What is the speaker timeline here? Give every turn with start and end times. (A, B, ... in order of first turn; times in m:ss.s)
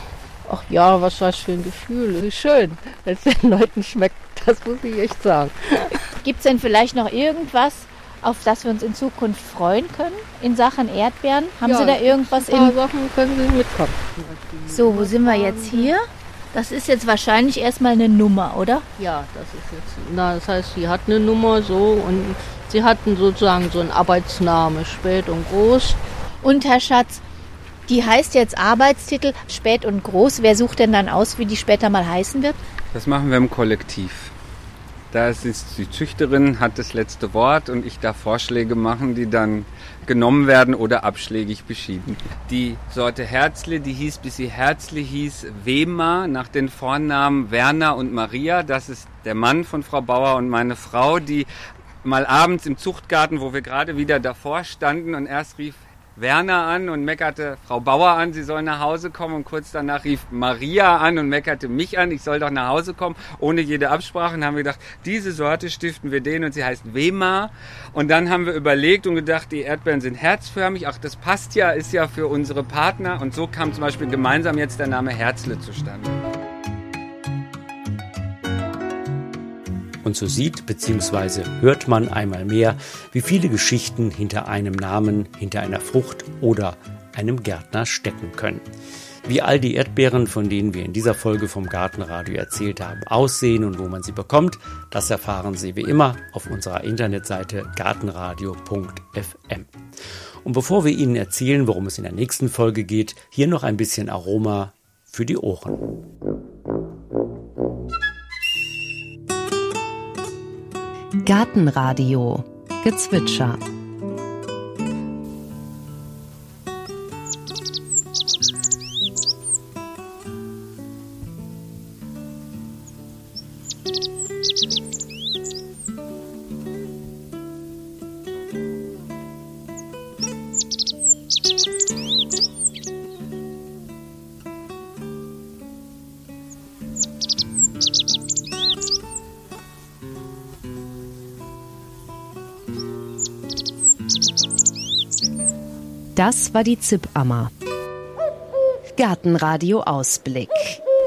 0:00.5-0:06.0 A
0:06.2-0:12.8 B
0:11.6-0:15.9 A
0:14.7-0:18.9 B
0:19.0-0:26.0 A
0:26.4-0:27.2 B
0:27.9-0:32.6 B
0:32.9-0:34.3 C
0:35.1-0:51.5 C
0:52.0-1:16.2 C
1:20.0-1:28.7 D
1:29.2-1:39.7 D
1:40.4-1:45.9 D
1:51.2-1:53.6 E
2:26.2-2:27.5 E
2:29.0-2:30.8 E